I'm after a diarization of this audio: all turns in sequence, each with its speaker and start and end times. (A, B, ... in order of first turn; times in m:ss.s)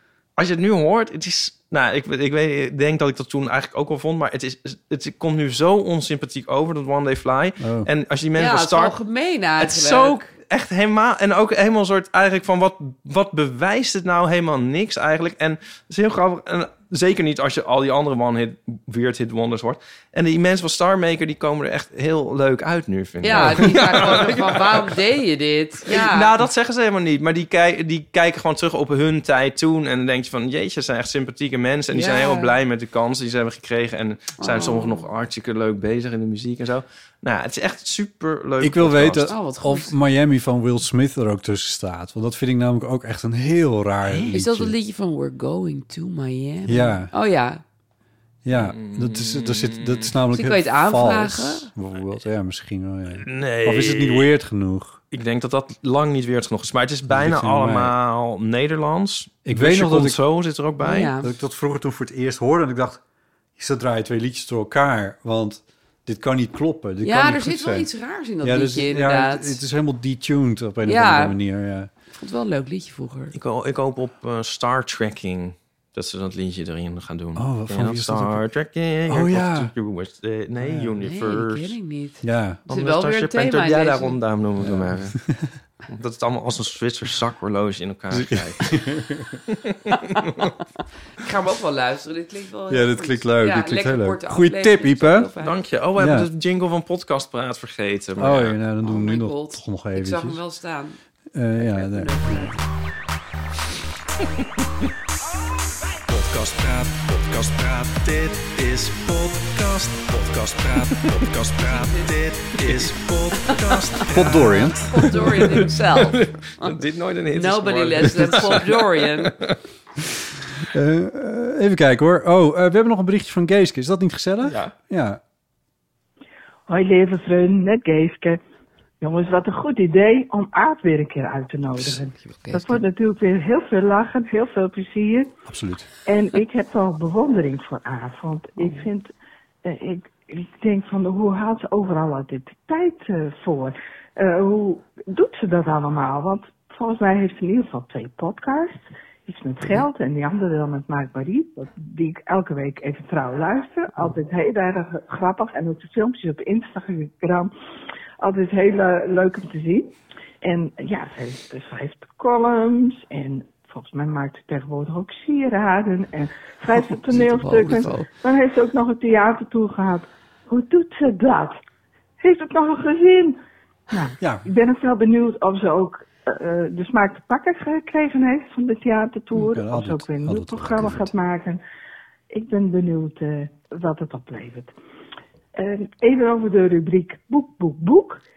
0:00.4-0:09.0 A
0:07.6-0:07.9 B
0:08.4-0:10.3 C
0:09.6-0:25.0 A
0:23.2-0:26.3 C
0:25.9-0:39.3 A
0:31.9-0:32.5 C
0:34.4-0:35.0 C
0:38.6-0:44.7 B
0:39.3-0:39.9 C
0:44.0-0:44.3 A
0:44.3-0:47.6 C
0:46.7-0:47.1 B
0:48.4-0:55.0 B
0:48.5-0:50.1 A
0:50.3-0:51.7 C
0:53.2-0:54.3 A
0:55.1-1:01.1 A
0:57.1-0:58.0 B
0:59.4-1:00.2 B
1:00.8-1:01.3 C
1:01.2-1:03.0 B
1:03.6-1:07.9 B
1:07.0-1:09.6 C
1:08.4-1:11.9 B
1:10.8-1:11.4 C
1:12.2-1:13.3 C
1:13.3-1:21.8 A
1:17.4-1:18.4 B
1:19.1-1:19.7 B
1:20.6-1:20.9 B
1:21.0-1:24.2 C
1:22.2-1:22.6 B
1:22.7-1:25.2 A
1:24.6-1:25.5 B
1:25.9-1:28.7 A
1:28.1-1:29.4 B
1:29.5-1:30.5 A
1:31.2-1:35.6 C
1:32.7-1:35.3 B
1:35.4-1:38.6 A
1:36.0-1:36.3 B
1:38.2-1:40.4 B
1:38.8-1:41.0 C
1:41.3-1:42.5 B
1:41.6-1:42.6 C
1:46.1-1:59.5 A
1:51.7-1:52.1 C
1:53.4-1:54.0 C
1:54.1-1:55.3 B
1:54.8-1:56.7 C
1:57.3-1:59.4 C
2:00.6-2:05.2 B
2:04.4-2:04.7 A
2:06.7-2:08.4 D
2:09.0-2:15.3 D
2:11.8-2:12.8 C
2:15.5-2:15.9 B
2:16.1-2:19.1 D
2:19.6-2:37.5 D
2:38.2-2:51.6 D
2:47.1-2:48.1 C
2:52.2-2:53.4 D
2:53.9-3:01.6 D
2:54.2-2:54.5 B
2:59.4-3:01.1 B
3:02.3-3:04.7 D
3:05.6-3:08.2 D